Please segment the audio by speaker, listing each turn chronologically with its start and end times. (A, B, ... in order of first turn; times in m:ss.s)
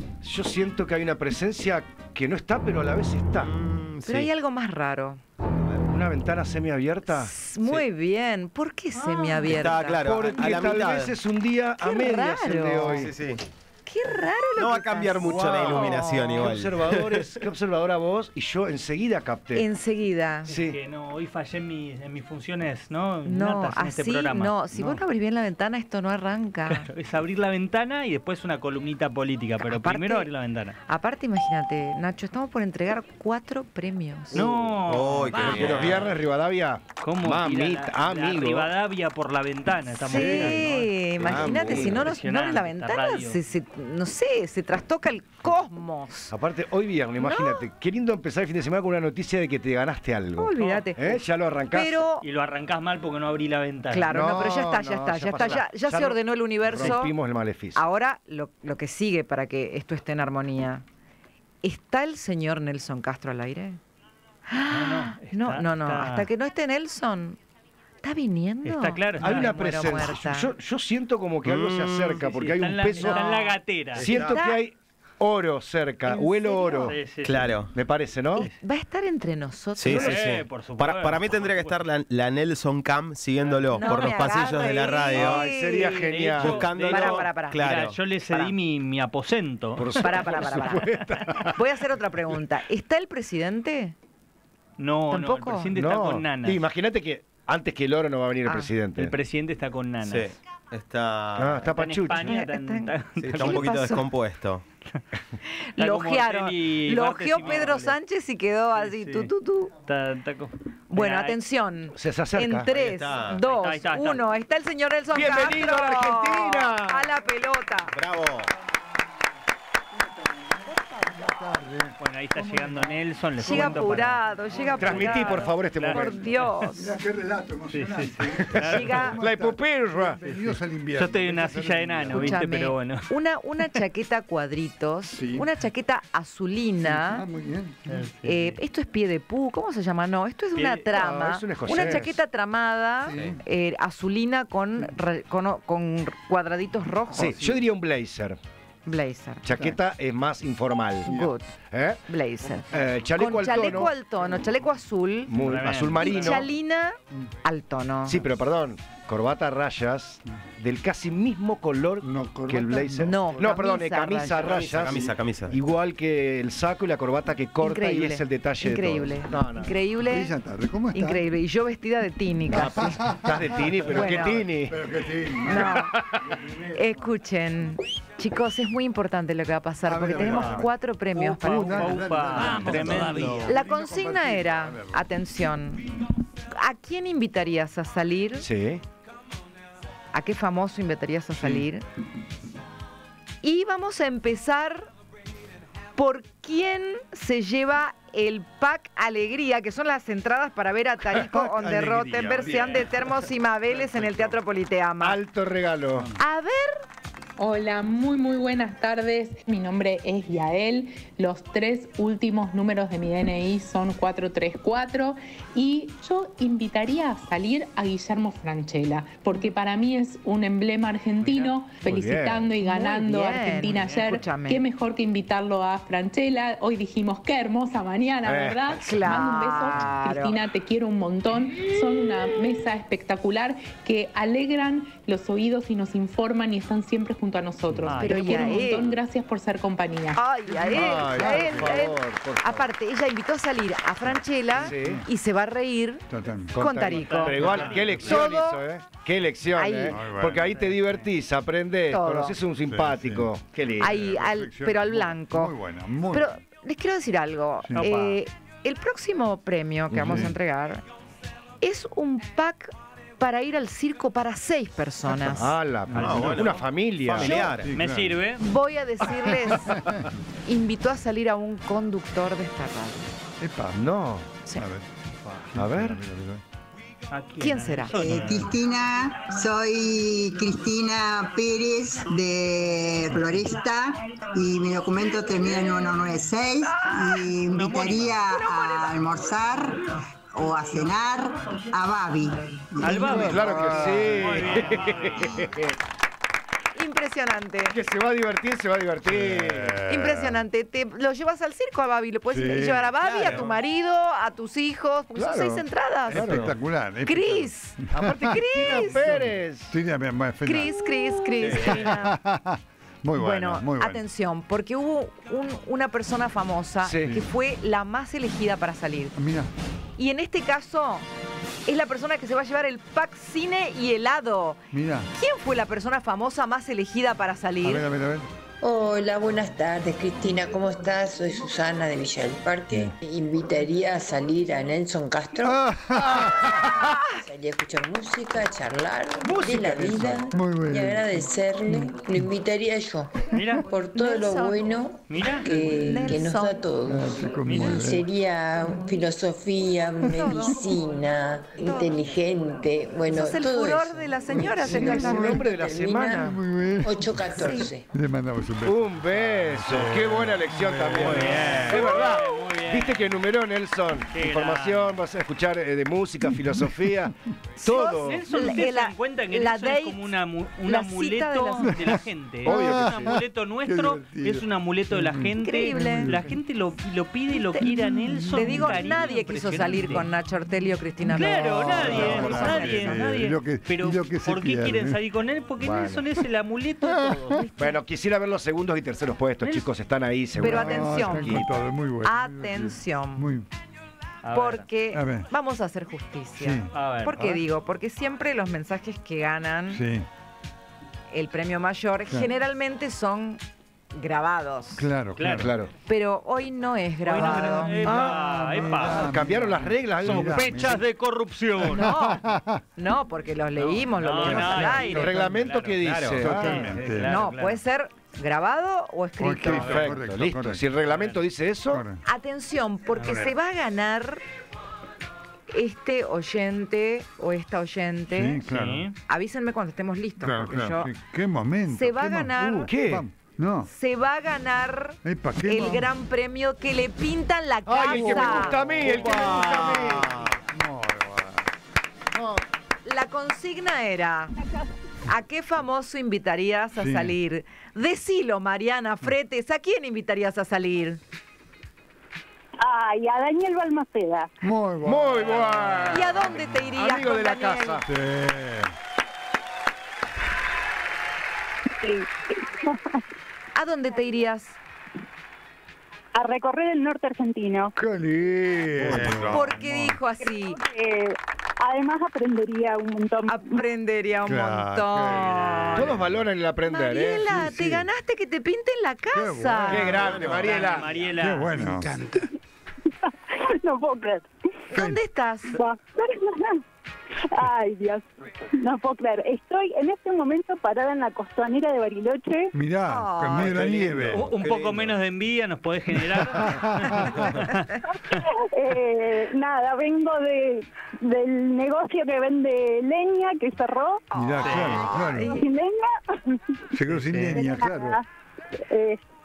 0:00.2-0:03.6 A
0:03.4-0:04.3 B
0:04.0-0:05.2 C
0:05.8-0:07.4 A
0:07.1-0:10.7 C
0:09.4-0:11.2 B
0:09.9-0:13.1 A
0:11.8-0:13.1 C
0:12.9-0:13.4 B
0:13.9-0:16.6 C
0:14.6-0:17.4 B
0:15.2-0:19.7 A
0:19.5-0:20.5 C
0:20.5-0:20.8 A
0:20.5-0:24.5 D
0:23.2-0:26.9 C
0:24.7-0:25.0 A
0:26.7-0:30.8 D
0:29.6-0:30.3 C
0:30.9-0:34.5 C
0:34.3-0:36.1 D
0:34.3-0:34.8 A
0:34.8-0:36.2 B
0:35.4-0:38.7 A
0:37.0-0:40.9 D
0:39.9-0:46.3 C
0:40.1-0:40.5 E
0:41.2-0:42.0 B
0:41.2-0:42.1 A
0:41.7-0:43.4 D
0:46.3-0:52.1 A
0:47.2-0:47.7 C
0:50.4-0:52.3 C
0:50.6-0:50.8 D
0:52.2-0:54.2 D
0:53.9-0:57.2 C
0:54.1-0:57.8 A
0:57.8-1:00.8 C
1:01.6-1:03.8 C
1:04.5-1:07.4 C
1:04.7-1:06.3 D
1:08.0-1:10.5 C
1:08.6-1:09.5 D
1:09.2-1:13.4 A
1:11.4-1:12.2 B
1:12.2-1:14.1 D
1:13.0-1:14.6 C
1:14.0-1:17.0 A
1:14.0-1:14.4 B
1:16.1-1:17.0 C
1:16.9-1:17.6 D
1:17.2-1:17.7 B
1:17.7-1:18.5 A
1:18.4-1:20.2 C
1:19.8-1:25.5 B
1:19.9-1:21.8 D
1:23.4-1:24.1 D
1:23.7-1:26.2 C
1:25.1-1:26.9 A
1:26.1-1:30.9 D
1:26.4-1:28.0 B
1:26.9-1:28.6 C
1:29.8-1:31.6 A
1:30.0-1:30.9 C
1:31.5-1:34.0 C
1:34.8-1:36.6 D
1:35.1-1:35.7 C
1:35.7-1:39.2 A
1:38.4-1:38.7 C
1:39.0-1:40.4 D
1:40.0-1:41.7 B
1:41.4-1:42.4 A
1:41.7-1:43.7 D
1:42.2-1:44.1 C
1:43.2-1:44.6 B
1:45.4-1:49.7 C
1:45.8-1:48.0 D
1:48.8-1:49.3 D
1:49.9-1:51.4 D
1:50.9-1:58.0 C
1:52.0-1:52.8 A
1:52.7-1:53.4 B
1:53.4-1:54.2 D
1:55.1-1:57.1 A
1:57.9-1:58.5 B
2:01.0-2:04.0 E
2:01.0-2:01.2 C
2:02.0-2:04.2 D
2:03.4-2:06.9 C
2:04.8-2:06.2 A
2:04.9-2:05.2 D
2:05.7-2:06.7 D
2:06.7-2:12.4 E
2:07.7-2:09.1 D
2:08.6-2:09.2 C
2:09.2-2:10.2 A
2:10.2-2:13.1 D
2:12.1-2:17.2 C
2:15.1-2:15.5 E
2:16.8-2:17.8 E
2:17.9-2:18.6 D
2:18.2-2:27.4 C
2:20.6-2:20.9 D
2:20.9-2:22.2 A
2:21.7-2:22.1 E
2:23.1-2:23.4 E
2:23.1-2:23.4 B
2:27.1-2:28.4 A
2:28.9-2:29.5 C
2:29.4-2:31.1 A
2:31.0-2:38.2 C
2:31.1-2:31.3 E
2:31.7-2:32.0 A
2:32.7-2:34.0 A
2:35.3-2:36.5 A
2:35.4-2:36.4 D
2:38.0-2:49.8 A
2:42.0-2:43.5 E
2:43.0-2:44.7 C
2:44.3-2:45.1 E
2:44.6-2:45.6 B
2:47.6-2:50.3 C
2:50.0-2:51.2 E
2:50.9-2:53.2 C
2:52.5-2:54.8 A
2:52.5-2:53.6 E
2:53.9-2:54.5 C
2:54.7-2:57.0 E
2:55.4-2:56.0 C
2:56.7-3:06.0 C
2:59.8-3:05.1 E
3:00.2-3:00.6 D
3:01.2-3:03.5 D
3:02.7-3:03.5 A
3:06.5-3:08.5 C
3:08.4-3:08.8 A
3:10.1-3:11.8 C
3:13.4-3:14.9 C
3:16.0-3:25.2 C
3:21.1-3:23.1 E
3:25.0-3:26.1 A
3:26.2-3:26.7 C
3:27.4-4:00.3 F
3:41.8-3:42.5 A
3:42.6-3:44.6 C
3:43.7-3:44.2 D
3:48.2-3:48.8 A
3:48.8-3:50.4 C
3:57.7-3:58.0 E
3:57.8-3:58.3 D
3:58.0-3:59.0 C
4:00.2-4:08.6 C
4:00.6-4:02.7 A
4:01.1-4:01.8 E
4:04.1-4:05.0 E
4:04.5-4:05.0 A
4:06.1-4:06.6 E
4:06.5-4:14.0 A
4:06.9-4:08.2 D
4:09.6-4:10.1 C
4:09.9-4:10.5 E
4:10.5-4:11.1 D
4:11.9-4:12.4 C
4:12.7-4:16.4 E
4:13.8-4:15.6 C
4:16.1-4:20.8 C
4:17.6-4:17.9 E
4:17.8-4:18.2 D
4:19.9-4:20.3 A
4:21.6-4:25.5 C
4:25.2-4:27.4 A
4:25.9-4:26.4 E
4:25.9-4:27.7 B
4:26.0-4:26.6 D
4:27.2-4:27.6 C
4:27.5-4:28.2 E
4:27.6-4:28.4 D
4:28.4-4:33.1 C
4:29.5-4:30.1 E
4:33.4-4:33.8 E
4:33.8-4:34.3 A
4:34.4-4:36.4 E
4:35.6-4:36.0 A
4:37.1-4:38.5 D
4:37.4-4:38.0 C
4:38.0-4:49.8 G
4:47.4-4:48.4 D
4:50.3-4:53.4 G
4:52.8-4:55.3 D
4:53.0-4:54.6 E
4:53.0-4:55.7 A
4:56.8-4:57.8 C
4:57.7-4:59.8 A
4:59.0-5:00.5 E
4:59.9-5:06.5 C
5:02.3-5:02.9 E
5:03.0-5:03.4 A
5:05.2-5:06.6 A
5:06.1-5:10.8 E
5:07.0-5:09.2 C
5:07.9-5:09.8 A
5:10.4-5:12.1 C
5:11.4-5:11.8 B
5:11.6-5:14.0 E
5:13.2-5:19.2 C
5:16.8-5:17.2 A
5:19.2-5:19.5 E
5:20.0-5:21.1 C
5:21.7-5:24.6 C
5:24.7-5:25.1 E
5:25.1-5:27.9 C
5:27.6-5:28.3 E
5:28.6-5:56.0 H
5:35.4-5:36.8 E
5:36.7-5:37.2 C
5:39.2-5:40.2 A
5:39.3-5:41.1 E
5:43.3-5:43.6 D
5:44.0-5:44.7 C
5:45.1-5:45.5 D
5:45.5-5:46.6 C
5:46.9-5:48.1 E
5:47.4-5:47.8 D
5:50.1-5:50.6 C
5:51.6-5:52.0 C
5:53.1-5:56.4 C
5:54.3-5:56.4 A
5:54.9-5:55.4 E
5:56.1-6:01.6 E
5:56.8-5:57.9 H
5:57.2-5:57.7 C
5:58.6-6:08.3 A
6:01.0-6:03.0 D
6:01.7-6:02.3 C
6:04.1-6:05.0 D
6:06.3-6:07.1 E
6:07.6-6:10.1 C
6:08.0-6:20.1 D
6:10.6-6:12.0 C
6:11.6-6:16.4 E
6:12.4-6:13.2 A
6:15.3-6:16.2 C
6:17.3-6:23.0 C
6:17.6-6:18.9 E
6:21.1-6:25.0 E
6:21.1-6:27.4 D
6:25.6-6:26.1 A
6:26.8-6:27.2 E
6:27.4-6:27.8 C
6:27.6-6:31.4 A
6:30.4-6:33.4 C
6:30.4-6:33.5 E
6:34.2-6:34.7 D
6:34.3-6:39.8 C
6:34.9-6:35.3 E
6:36.4-6:36.7 E
6:36.7-6:37.4 D
6:39.7-6:40.1 E
6:41.1-6:43.4 C
6:43.9-6:44.9 C
6:44.8-6:45.6 E
6:45.2-6:45.5 D
6:45.4-6:45.7 A
6:45.8-6:47.8 C
6:47.0-6:49.2 D
6:47.1-6:50.8 E
6:47.8-6:50.7 A
6:50.0-6:51.9 D
6:51.6-6:52.6 E
6:51.7-6:55.4 C
6:53.6-6:57.6 D
6:54.2-6:54.9 E
6:54.3-6:56.7 A
6:56.2-6:57.2 E
6:56.5-6:59.9 C
6:59.2-7:00.7 E
6:59.5-7:01.9 A
6:59.5-6:59.8 D
7:00.8-7:01.2 D
7:01.7-7:02.0 E
7:02.0-7:04.2 C
7:02.9-7:03.3 D
7:05.5-7:08.4 C
7:08.1-7:08.9 E
7:08.4-7:08.9 D
7:09.1-7:10.9 C
7:10.2-7:13.7 E
7:11.7-7:12.7 C
7:12.7-7:13.1 A
7:13.7-7:19.5 C
7:15.0-7:15.9 E
7:17.7-7:20.3 A
7:17.9-7:21.5 E
7:22.8-7:24.3 C
7:25.0-7:31.0 C
7:26.8-7:27.2 E
7:32.6-7:34.3 I
7:34.4-7:36.8 E
7:34.8-7:37.9 A
7:35.8-7:37.9 C
7:37.8-7:38.7 E
7:41.8-7:43.0 I
7:43.6-7:44.6 C
7:46.2-7:47.8 I
7:47.8-7:50.0 E
7:48.8-7:49.5 A
7:48.9-7:50.6 C
7:50.2-7:53.7 I
7:53.3-7:56.0 C
7:54.2-7:56.3 E
7:55.7-7:57.6 A
7:56.7-8:00.0 C
7:57.4-7:57.9 E
7:59.1-8:00.6 E
7:59.7-8:01.0 A
7:59.9-8:01.1 B
8:00.4-8:01.8 D
8:01.2-8:02.1 E
8:03.1-8:04.3 I
8:04.7-8:05.6 C
8:04.7-8:05.0 E
8:05.5-8:06.6 I
8:07.3-8:12.5 I
8:12.5-8:14.3 E
8:12.9-8:13.7 C
8:13.4-8:15.0 B
8:14.1-8:18.2 D
8:16.0-8:17.3 E
8:17.9-8:24.0 I
8:24.1-8:25.4 E
8:24.1-8:25.5 C
8:24.4-8:24.9 D
8:24.9-8:26.6 I
8:26.7-8:28.0 E
8:26.9-8:27.4 D
8:27.3-8:28.0 I
8:28.7-8:29.0 I